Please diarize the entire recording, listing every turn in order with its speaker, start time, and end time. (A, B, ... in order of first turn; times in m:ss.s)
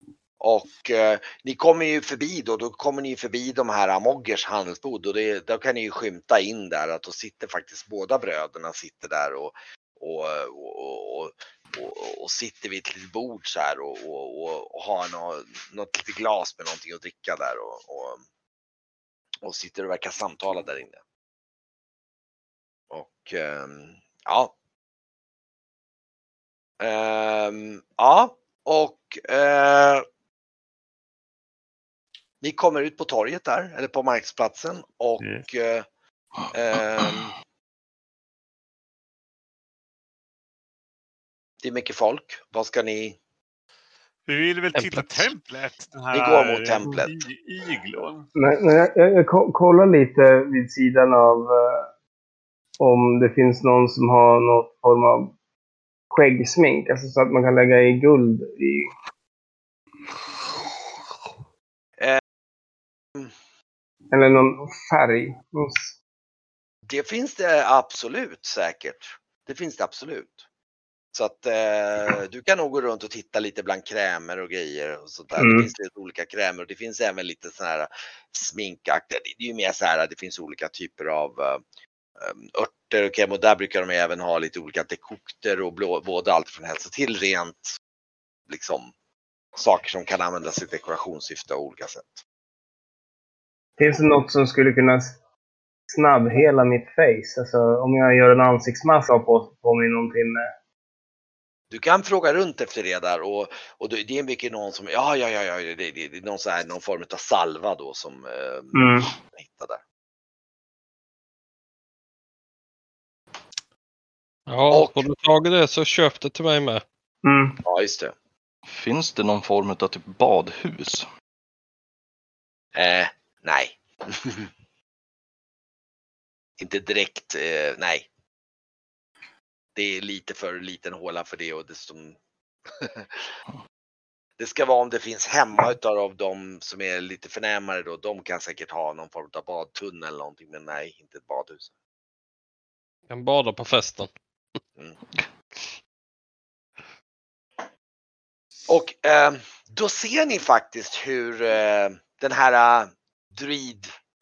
0:00.4-0:18.2 A
0:19.4-0:21.0 A
0:22.9-0:24.5 A
0:26.8-0:30.1 A
0:32.4-0:35.9 A
0:36.5-0:37.3 A
0:41.6-0:43.2 A
0:44.3-0:48.3 B
0:44.7-0:45.3 C
0:46.1-0:47.1 A
0:48.4-0:51.9 D
0:52.8-0:55.4 D
0:56.1-0:58.9 D
1:04.1-1:06.0 D
1:06.9-1:10.4 A
1:11.1-1:21.6 A
1:15.4-1:15.7 D
1:22.2-1:27.8 A
1:28.5-1:28.9 A
1:29.6-1:32.2 A
1:33.8-1:35.2 D
1:35.9-1:40.5 D
1:41.7-1:49.8 A
1:48.7-1:49.1 D
1:54.5-1:56.8 C
1:54.7-1:55.0 A
1:57.2-1:57.6 D
1:57.6-1:58.2 A
1:58.7-2:01.1 E
2:02.8-2:04.5 A
2:06.6-2:08.1 A
2:09.8-2:12.2 A
2:12.8-2:13.3 A
2:14.4-2:21.7 A
2:23.1-2:24.1 C
2:28.7-2:33.9 A